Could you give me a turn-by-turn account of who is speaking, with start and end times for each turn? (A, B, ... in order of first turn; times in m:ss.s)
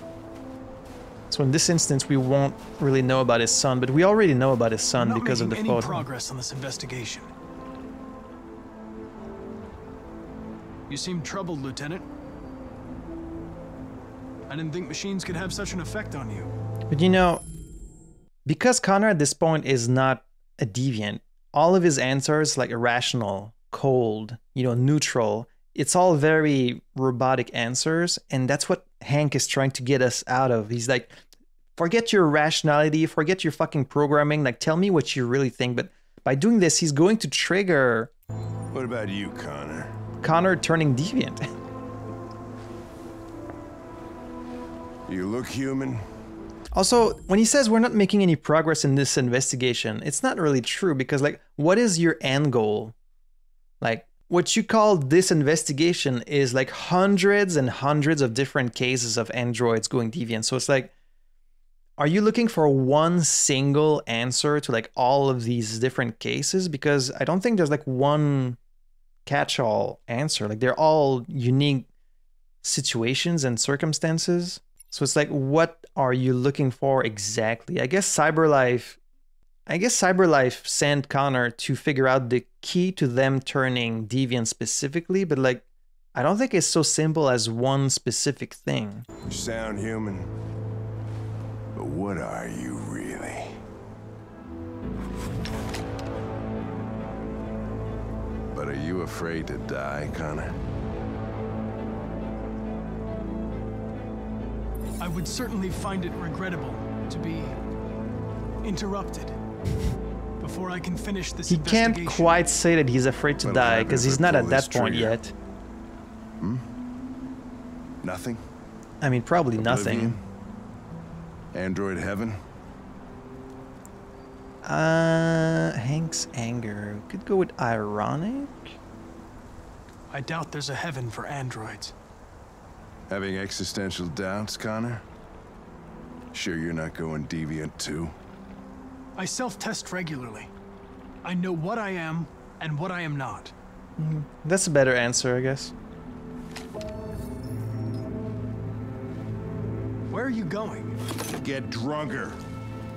0:01.3-0:06.1 A
0:05.0-0:07.3 B
0:10.9-0:12.0 B
0:14.5-0:16.5 B
0:16.9-0:17.4 A
0:18.5-0:31.2 A
0:31.8-0:38.1 A
0:38.7-0:39.9 C
0:40.2-0:41.5 A
0:45.1-0:46.0 C
0:46.7-0:53.0 A
0:53.8-1:00.9 A
1:02.0-1:08.6 A
1:09.3-1:11.9 A
1:12.6-1:19.0 A
1:19.7-1:25.6 A
1:26.2-1:29.0 A
1:29.3-1:30.3 C
1:31.8-1:33.6 C
1:38.5-1:40.6 C
1:45.0-1:47.6 B
1:48.6-1:49.4 B
1:50.4-1:52.4 B
1:51.5-1:55.3 A
1:53.4-1:55.2 C
1:56.4-1:56.7 C
1:58.0-1:58.4 C
1:59.0-2:00.2 A
1:59.6-2:00.2 C
2:01.5-2:02.4 C
2:04.6-2:08.8 A
2:10.1-2:11.9 B
2:13.1-2:15.0 C
2:16.3-2:18.2 C
2:19.2-2:20.5 B
2:21.2-2:23.5 B
2:24.0-2:25.7 A
2:30.1-2:31.0 B
2:31.3-2:32.4 C